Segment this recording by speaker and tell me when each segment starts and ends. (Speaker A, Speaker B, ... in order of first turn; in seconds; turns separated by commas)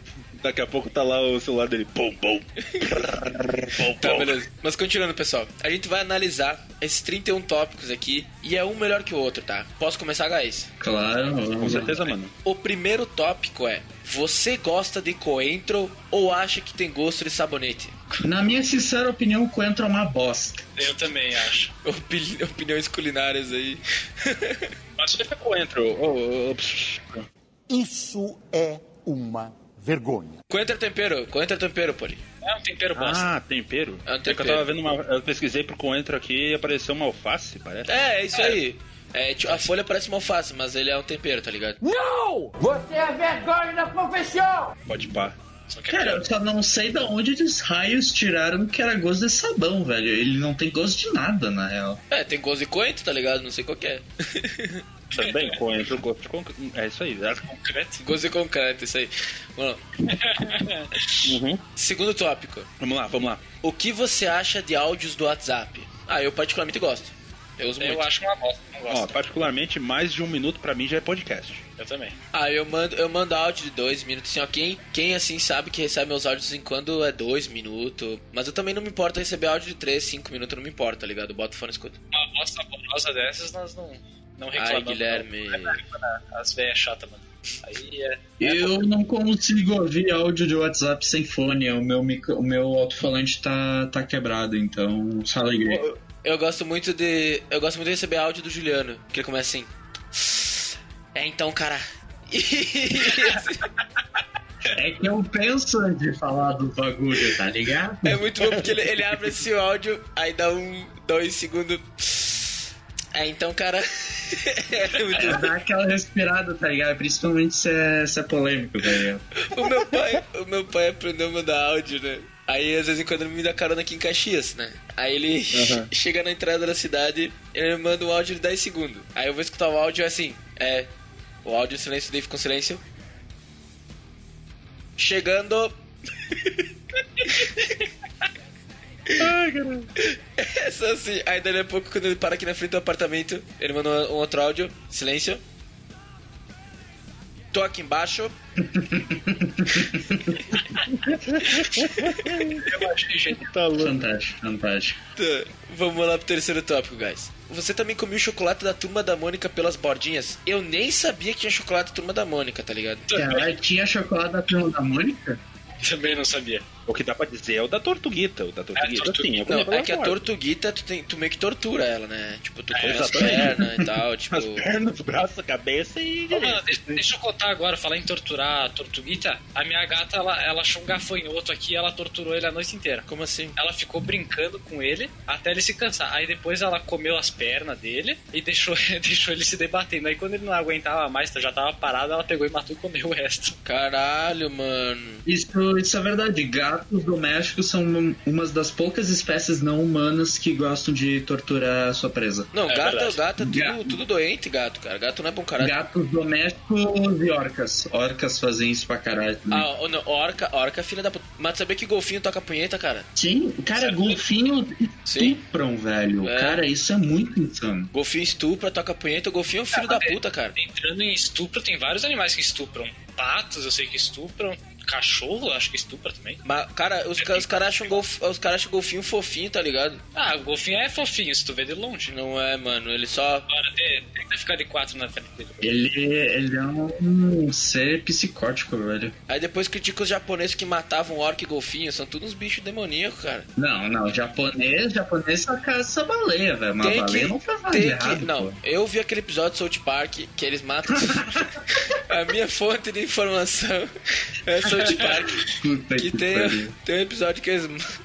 Speaker A: 0.4-4.4, Speaker B: 3.9-10.7, Speaker C: 10.8-12.0, Speaker A: 11.6-12.3, Speaker B: 12.4-18.0, Speaker C: 18.2-20.8, Speaker D: 20.8-21.7, Speaker B: 21.8-24.7, Speaker A: 25.1-27.2, Speaker E: 27.7-30.4, Speaker B: 30.5-32.2, Speaker D: 32.4-33.3, Speaker A: 33.0-37.9, Speaker B: 34.1-34.7, Speaker B: 37.9-41.8, Speaker E: 41.9-44.3, Speaker A: 44.9-45.4, Speaker D: 45.7-46.3, Speaker C: 45.9-52.0, Speaker B: 52.1-54.8, Speaker A: 55.1-57.5, Speaker D: 55.1-55.6, Speaker D: 57.5-58.0, Speaker B: 58.0-59.8, Speaker D: 60.0-61.4, Speaker A: 61.2-61.6, Speaker B: 61.8-62.7, Speaker A: 62.8-63.4, Speaker B: 63.6-68.1, Speaker D: 67.8-69.5, Speaker A: 68.9-71.6, Speaker D: 71.8-72.2, Speaker B: 72.3-82.0, Speaker D: 82.1-88.8, Speaker B: 84.6-85.8, Speaker C: 88.4-95.8, Speaker B: 95.7-103.6, Speaker C: 104.7-108.2, Speaker B: 108.0-115.5, Speaker C: 115.2-119.2, Speaker B: 119.4-130.9, Speaker A: 125.5-125.9, Speaker B: 131.4-132.8, Speaker B: 135.0-135.7, Speaker B: 136.3-136.7, Speaker B: 137.2-137.5, Speaker A: 139.2-139.9, Speaker B: 140.0-145.4, Speaker B: 147.5-148.3, Speaker C: 148.6-150.4, Speaker A: 150.8-152.8, Speaker B: 151.6-152.0, Speaker D: 152.6-153.5, Speaker A: 153.4-154.0, Speaker C: 153.8-155.0, Speaker B: 155.2-163.1, Speaker D: 163.1-163.5, Speaker C: 163.1-165.4, Speaker D: 165.8-166.7, Speaker A: 166.9-170.2, Speaker D: 168.8-169.5, Speaker B: 169.5-174.7, Speaker D: 172.7-173.1, Speaker A: 172.8-173.7, Speaker C: 173.1-173.8, Speaker A: 174.3-177.0, Speaker D: 176.3-183.1, Speaker B: 183.1-183.6, Speaker D: 183.6-193.6, Speaker B: 193.7-195.2, Speaker C: 195.3-202.5, Speaker B: 202.5-205.7, Speaker D: 202.7-203.2, Speaker C: 203.4-204.0, Speaker C: 205.6-209.7, Speaker B: 209.5-213.1, Speaker C: 213.2-217.9, Speaker D: 213.8-214.2, Speaker B: 215.1-215.4, Speaker B: 216.2-216.6, Speaker B: 217.9-220.6, Speaker D: 219.7-226.4, Speaker B: 226.4-230.0, Speaker D: 227.2-227.4, Speaker D: 230.2-232.1, Speaker B: 232.1-233.5, Speaker D: 233.5-235.7, Speaker C: 235.6-239.2, Speaker B: 239.3-243.5, Speaker C: 243.6-248.6, Speaker B: 246.8-251.5, Speaker C: 251.0-251.5, Speaker B: 252.1-253.9, Speaker B: 254.4-255.5, Speaker C: 255.5-256.7, Speaker B: 256.0-257.8